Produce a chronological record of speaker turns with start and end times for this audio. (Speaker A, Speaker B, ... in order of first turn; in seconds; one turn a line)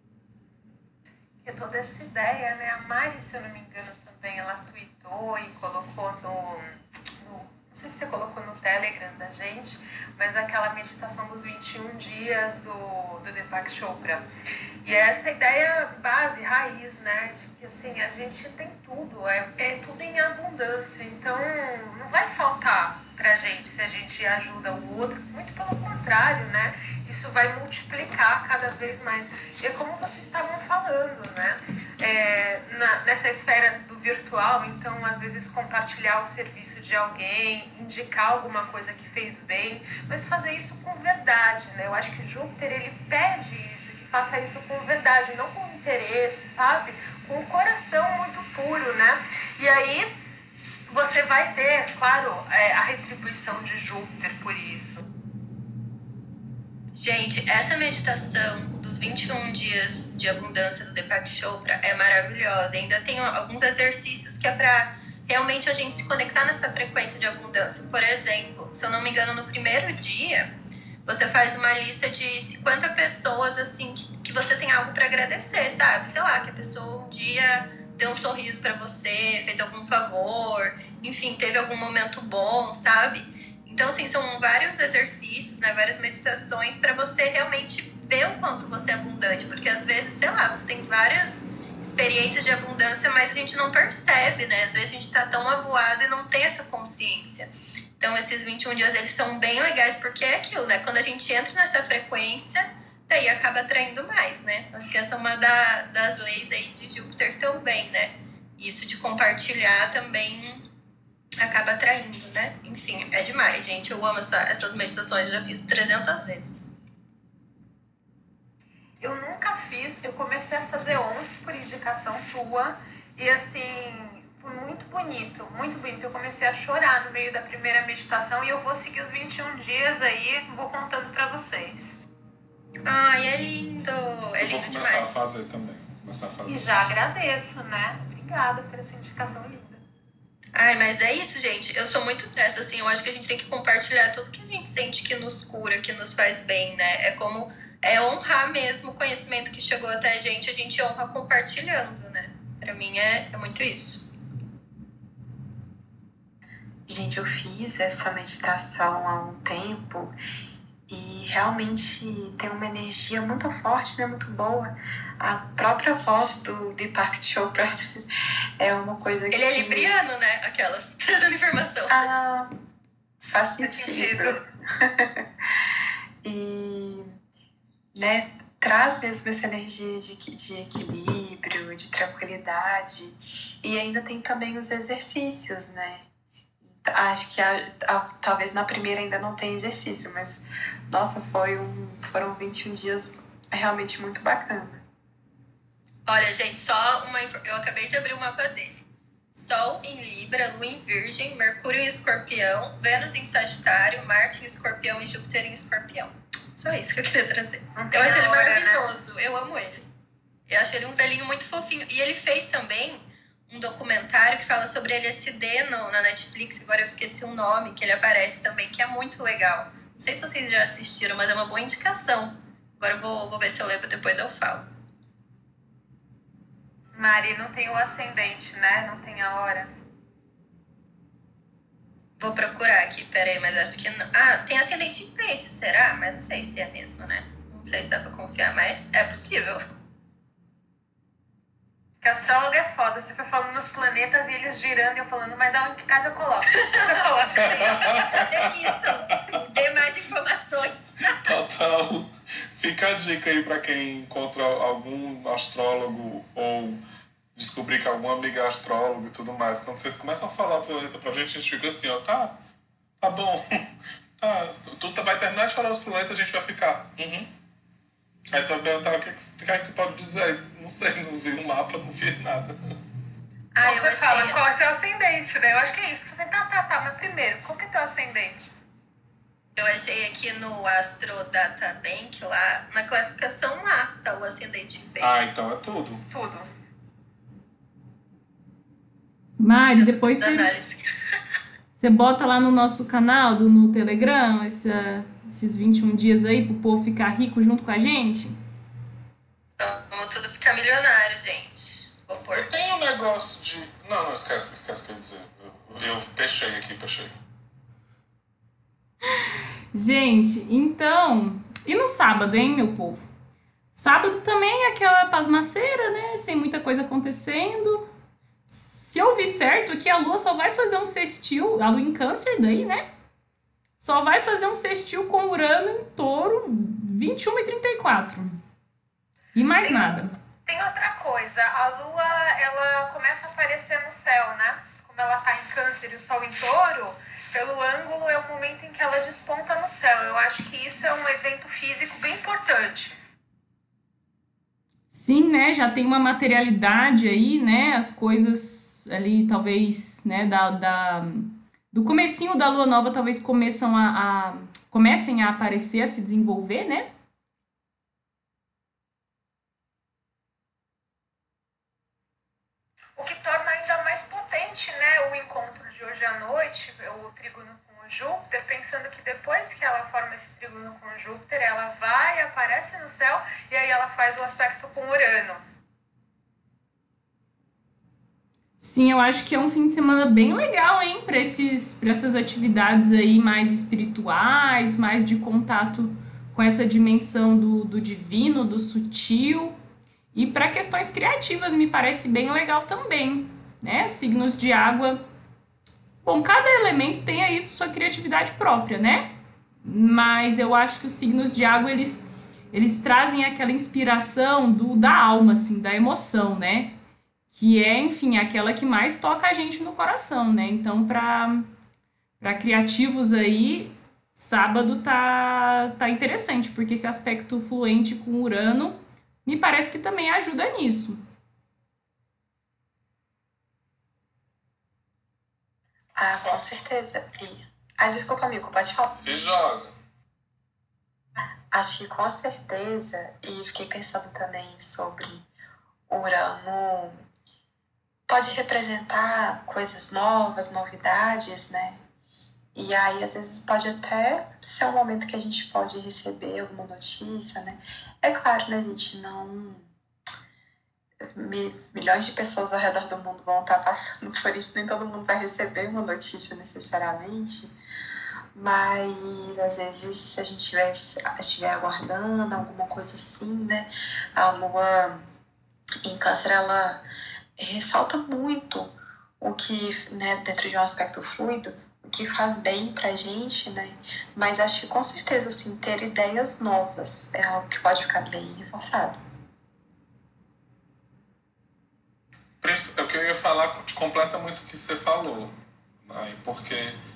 Speaker A: 1.4-6.6
Speaker A: 7.2-14.3
Speaker A: 14.8-50.1
Speaker A: 50.9-55.1
Speaker B: 56.9-70.5
Speaker B: 71.1-110.6
Speaker B: 111.4-116.6
Speaker A: 119.0-132.0
Speaker B: 132.8-135.2
Speaker C: 134.4-136.9
Speaker A: 136.4-139.8
Speaker B: 140.5-154.1
Speaker D: 156.9-160.1
Speaker D: 160.9-167.7
Speaker D: 168.6-170.0
Speaker B: 169.3-172.0
Speaker D: 171.9-172.5
Speaker D: 173.2-175.2
Speaker A: 173.6-174.4
Speaker D: 176.2-177.1
Speaker D: 177.9-186.1
Speaker D: 186.6-194.8
Speaker B: 196.1-209.9
Speaker A: 207.8-208.9
Speaker B: 210.5-224.6
Speaker A: 226.9-229.7
Speaker B: 232.2-239.6
Speaker A: 242.0-248.0
Speaker B: 246.6-251.2
Speaker C: 247.4-249.4
Speaker C: 251.1-256.8
Speaker C: 257.4-262.4
Speaker C: 263.0-263.4
Speaker C: 264.2-267.3
Speaker C: 268.3-272.6
Speaker B: 273.6-274.4
Speaker A: 273.6-278.5
Speaker B: 279.6-285.3
Speaker C: 285.0-286.0
Speaker A: 286.1-286.5
Speaker E: 289.4-290.5
Speaker B: 289.8-290.8
Speaker E: 291.8-298.3
Speaker B: 299.6-302.5
Speaker C: 302.3-307.1
Speaker E: 309.7-313.1
Speaker E: 313.7-317.9
Speaker E: 318.5-322.8
Speaker E: 323.8-328.4
Speaker E: 329.4-330.1
Speaker A: 329.6-342.9
Speaker E: 344.9-356.9
Speaker A: 363.0-375.4
Speaker E: 378.6-389.6
Speaker E: 390.1-395.0
Speaker E: 396.0-399.1
Speaker E: 399.6-406.7
Speaker E: 407.3-411.5
Speaker E: 412.2-421.0
Speaker D: 426.0-428.9
Speaker C: 428.9-429.7
Speaker D: 431.5-435.3
Speaker D: 435.9-437.0
Speaker D: 438.1-441.8
Speaker D: 442.6-449.7
Speaker D: 451.1-457.5
Speaker D: 458.3-465.0
Speaker D: 465.8-466.8
Speaker D: 467.4-478.9
Speaker C: 482.4-485.3
Speaker C: 485.8-486.8